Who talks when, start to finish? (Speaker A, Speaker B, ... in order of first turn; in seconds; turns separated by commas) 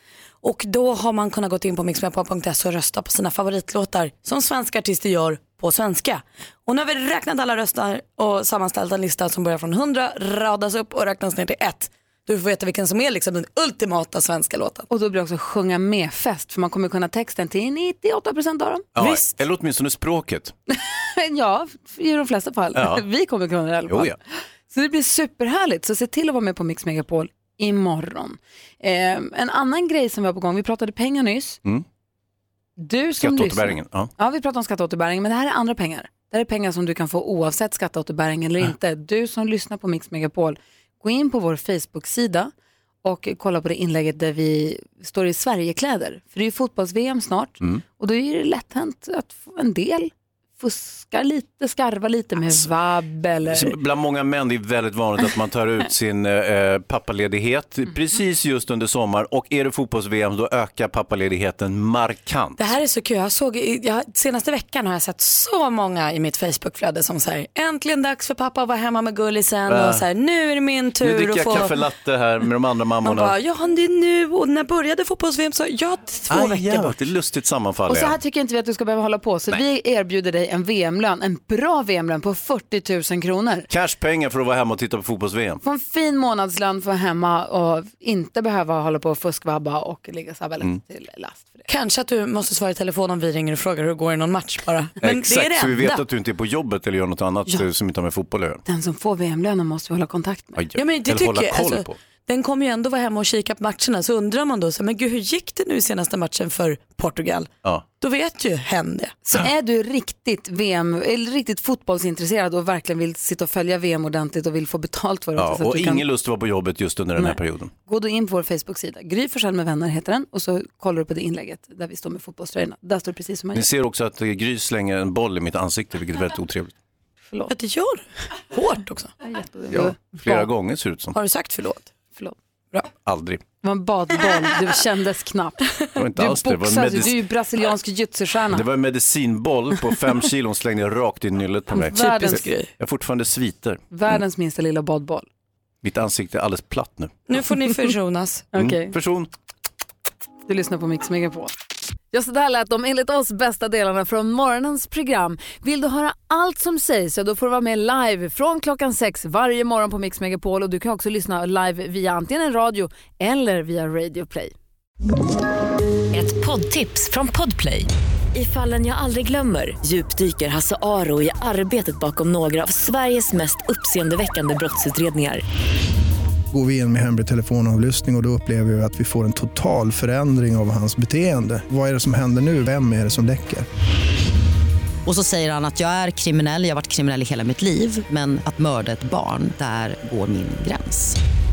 Speaker A: 0.4-14.9, Speaker B: 14.9-18.9, Speaker C: 18.9-20.5, Speaker A: 19.0-19.3, Speaker B: 20.7-31.6, Speaker C: 22.7-23.0, Speaker C: 23.9-24.1, Speaker B: 32.8-42.5, Speaker C: 33.2-34.1, Speaker B: 43.0-53.7, Speaker C: 53.5-62.6, Speaker A: 62.6-71.8, Speaker C: 69.7-70.0, Speaker C: 71.0-73.3, Speaker A: 73.0-77.0, Speaker C: 76.3-78.2, Speaker B: 77.9-83.7, Speaker C: 83.7-85.6, Speaker B: 85.6-91.7, Speaker A: 91.7-96.0, Speaker C: 95.0-98.6, Speaker B: 98.6-100.6, Speaker C: 100.5-102.0, Speaker A: 100.7-109.2, Speaker B: 109.2-116.0, Speaker C: 115.4-117.7, Speaker B: 117.2-123.7, Speaker C: 123.5-126.7, Speaker A: 127.5-129.1, Speaker B: 129.2-130.4, Speaker C: 129.7-131.2, Speaker A: 131.1-131.9, Speaker B: 132.2-132.8, Speaker C: 132.9-133.4, Speaker B: 133.6-138.6, Speaker C: 135.9-137.2, Speaker C: 138.5-143.8, Speaker B: 141.7-142.4, Speaker A: 141.8-142.7, Speaker B: 143.9-145.3, Speaker C: 145.8-147.2, Speaker A: 147.3-148.5, Speaker B: 148.5-148.9, Speaker C: 148.5-149.3, Speaker B: 150.4-151.5, Speaker B: 152.1-164.5, Speaker D: 166.1-175.4, Speaker E: 176.5-183.7, Speaker F: 185.1-191.2